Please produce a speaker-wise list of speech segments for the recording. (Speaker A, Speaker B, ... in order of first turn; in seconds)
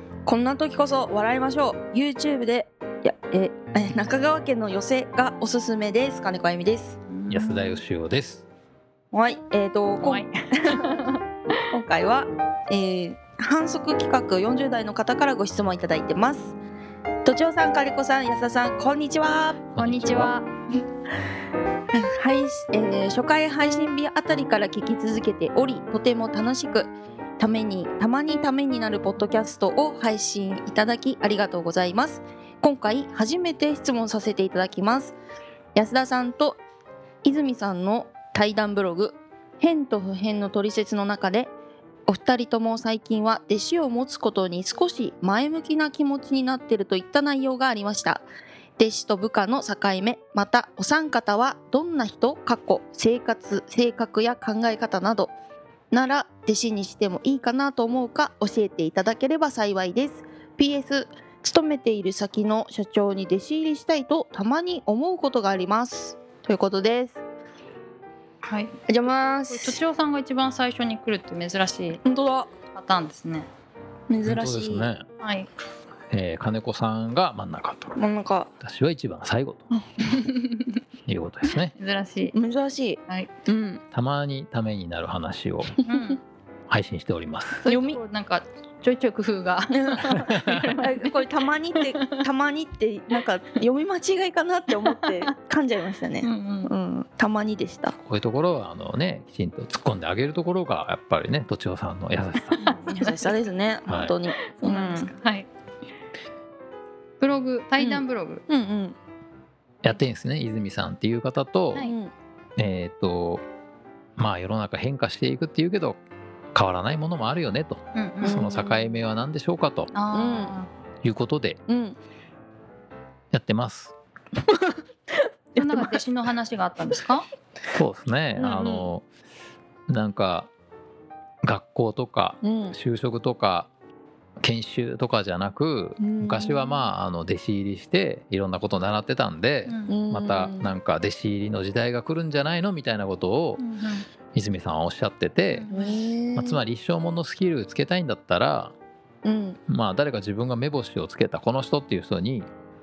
Speaker A: 0.2-7.0, 9.1-11.0, 11.7-16.6, 17.2-19.6, 21.9-35.1, 35.7-36.6, 37.2-41.5, 42.1-48.2, 48.8-55.3, 55.9-67.2, 68.9-69.8, 72.0-72.5, 74.1-74.9, 78.0-78.5, 82.3-83.8, 85.8-86.0, 87.7-88.0, 89.7-90.2, 90.8-98.0, 102.6-105.1, 107.8-109.0, 111.8-112.1, 118.2-119.0, 120.1-120.6, 121.7-122.0, 125.5-126.0, 128.4-128.9, 132.4-132.8, 136.0-136.9, 139.9-140.7, 145.7-146.6, 149.2-149.6
Speaker B: 7.1-7.8, 10.0-11.7, 19.8-20.4, 68.5-68.7, 69.5-72.0, 72.7-73.5, 75.2-75.5, 80.0-80.8, 81.7-82.3, 85.9-86.2, 87.6-91.2, 91.8-92.2, 94.9-95.3, 96.2-96.7, 102.6-103.3, 104.4-105.5, 107.2-108.4, 117.9-118.4, 119.9-120.7, 125.6-127.2, 139.7-139.9, 143.6-144.1, 145.5-146.0
Speaker C: 7.3-8.4, 19.7-20.3, 74.2-75.0, 76.1-78.0, 78.6-79.7, 81.1-81.7, 83.9-85.8, 86.7-87.6, 90.3-90.7, 98.0-102.6, 103.9-104.2, 109.8-111.9, 112.6-113.4, 114.2-116.0, 116.5-119.9, 121.0-121.6, 123.3-124.0, 127.7-129.1, 129.9-130.5, 131.4-133.7, 134.4-143.6, 144.3-145.7, 146.4-148.8, 149.7-152.5